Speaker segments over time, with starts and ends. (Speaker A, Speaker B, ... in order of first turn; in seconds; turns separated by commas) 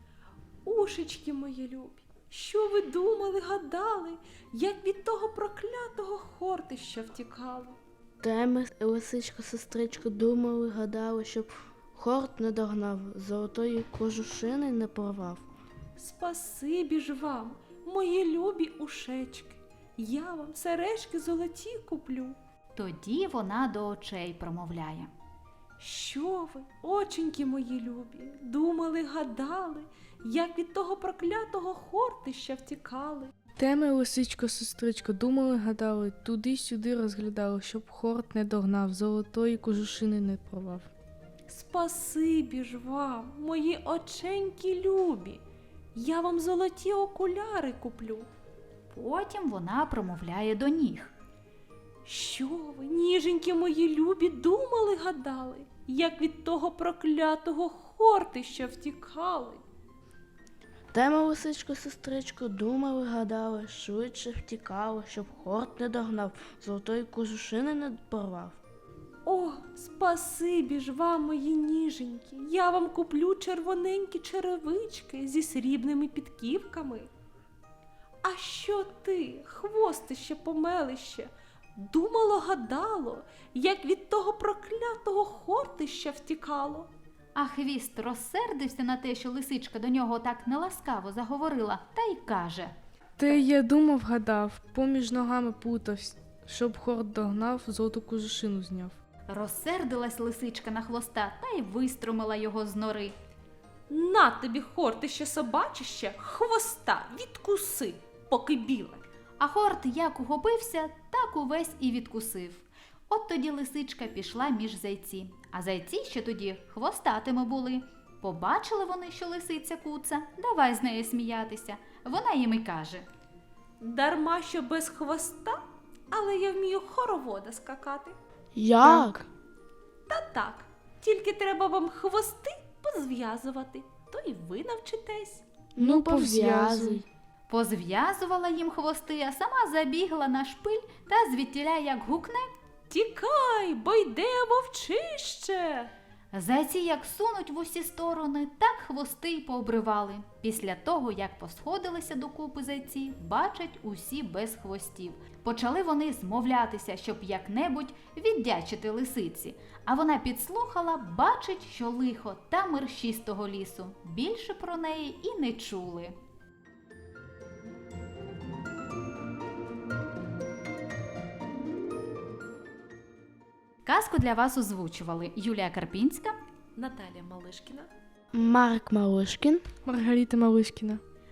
Speaker A: 0.6-7.8, Speaker B: 8.2-15.4, Speaker A: 16.0-22.4, Speaker C: 22.8-25.1, Speaker A: 25.8-33.3, Speaker D: 33.6-40.9, Speaker A: 41.5-45.4, Speaker A: 45.9-48.3, Speaker C: 48.9-51.1, Speaker A: 52.0-59.6, Speaker B: 60.9-68.6, Speaker A: 69.2-77.1, Speaker A: 78.2-86.9, Speaker C: 87.3-92.7, Speaker D: 93.2-99.0, Speaker C: 99.3-103.1, Speaker A: 103.9-109.0, Speaker C: 109.4-123.0, Speaker A: 123.8-128.2, Speaker B: 128.5-129.3, Speaker A: 130.1-135.4, Speaker B: 135.8-137.0, Speaker D: 135.8-137.0, Speaker C: 137.5-142.5, Speaker A: 142.9-145.9, Speaker C: 146.3-166.2, Speaker C: 173.8-176.3, Speaker A: 176.8-177.9, Speaker B: 178.3-179.6, Speaker D: 179.8-181.0